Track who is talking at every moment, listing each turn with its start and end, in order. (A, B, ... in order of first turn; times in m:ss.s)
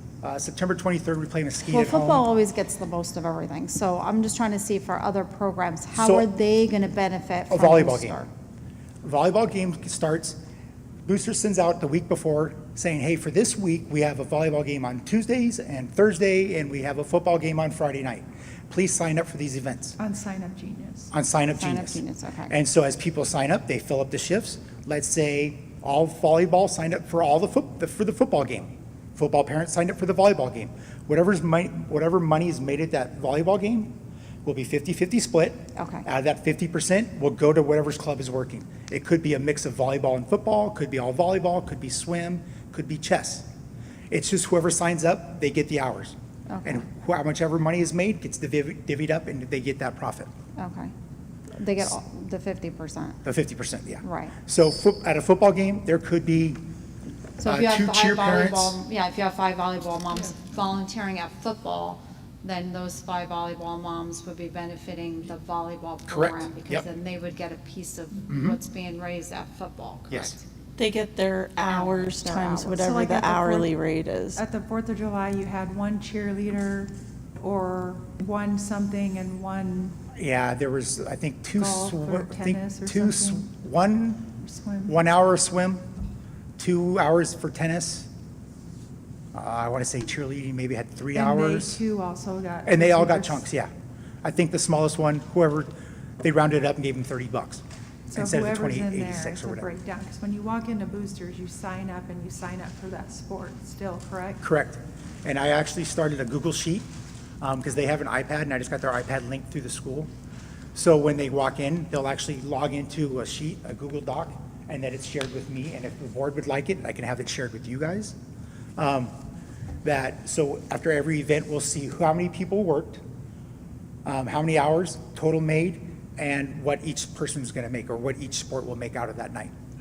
0:00.2-0:02.3 A
0:01.7-0:08.3 B
0:06.0-0:06.3 A
0:07.5-0:08.2 A
0:09.0-0:10.4 A
0:11.1-0:20.0 A
0:20.0-0:21.1 C
0:21.1-0:43.5 A
0:21.6-0:22.6 B
0:35.8-0:36.0 B
0:44.1-0:50.3 A
0:46.5-0:46.8 B
0:50.6-0:50.9 B
0:51.6-0:53.2 B
0:53.2-0:56.6 A
0:54.0-0:54.3 B
0:57.4-1:10.4 B
0:57.4-0:58.8 A
1:06.1-1:06.8 A
1:08.3-1:08.6 A
1:10.1-1:10.4 A
1:10.8-1:14.4 D
1:11.7-1:12.8 B
1:12.8-1:13.7 C
1:14.4-1:20.0 C
1:20.2-1:24.3 A
1:21.6-1:23.5 C
1:24.4-1:25.0 C
1:24.9-1:25.8 A
1:26.6-1:28.1 A
1:29.3-1:31.8 A
1:31.1-1:33.4 C
1:32.6-1:33.7 A
1:34.2-1:39.7 A
1:38.1-1:44.4 C
1:44.4-1:46.9 A
1:47.4-1:50.1 A
1:50.8-1:58.2 A
1:58.8-1:59.1 A
1:59.8-2:03.0 A
2:04.0-2:09.5 A